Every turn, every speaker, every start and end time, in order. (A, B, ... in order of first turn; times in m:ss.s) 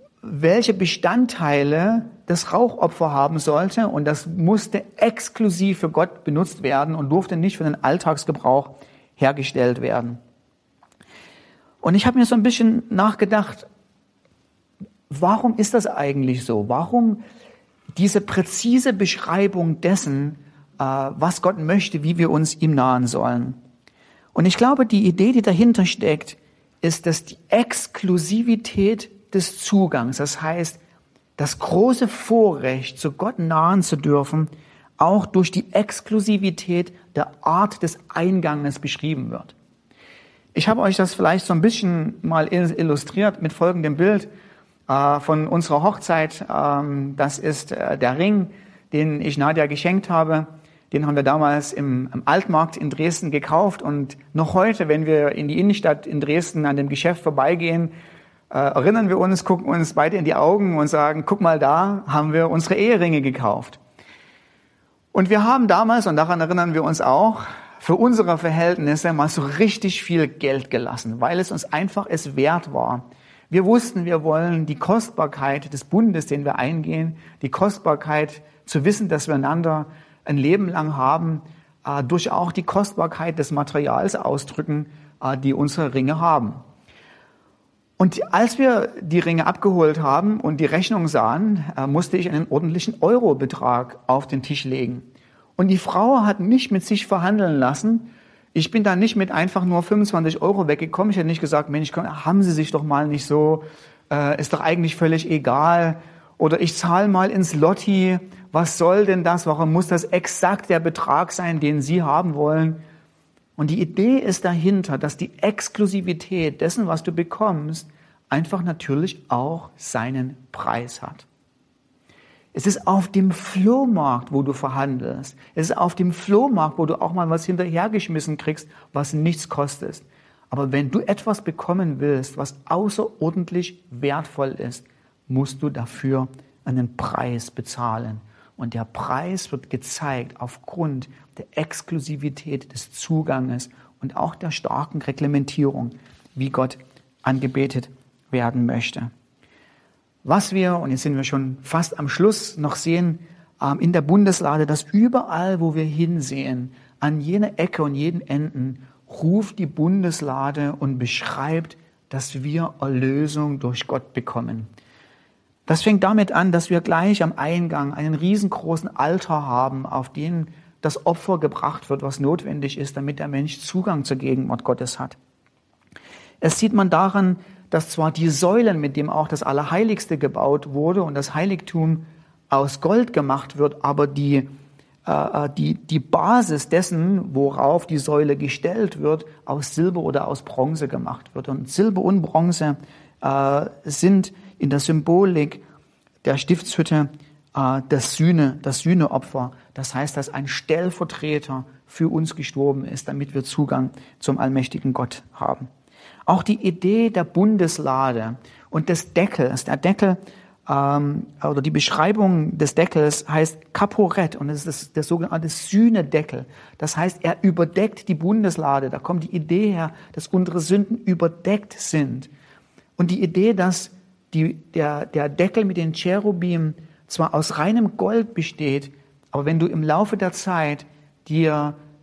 0:00.2-0:10.2 A
0:11.8-0:13.6 A
0:15.1-0:17.2 A
0:18.0-0:23.6 A
0:24.3-0:30.8 A
0:31.4-0:39.5 A
0:40.5-0:44.3 A
0:44.9-0:57.9 A
0:58.5-1:03.8 A
1:05.1-1:26.6 A
1:28.0-1:35.0 A
1:35.6-1:52.8 A
1:53.6-2:01.2 A
2:02.5-2:29.1 A
2:30.2-2:44.7 A
2:45.7-2:55.2 A
2:56.4-3:04.5 A
3:05.0-3:15.6 A
3:16.2-3:25.7 A
3:26.3-3:42.3 A
3:43.0-3:51.8 A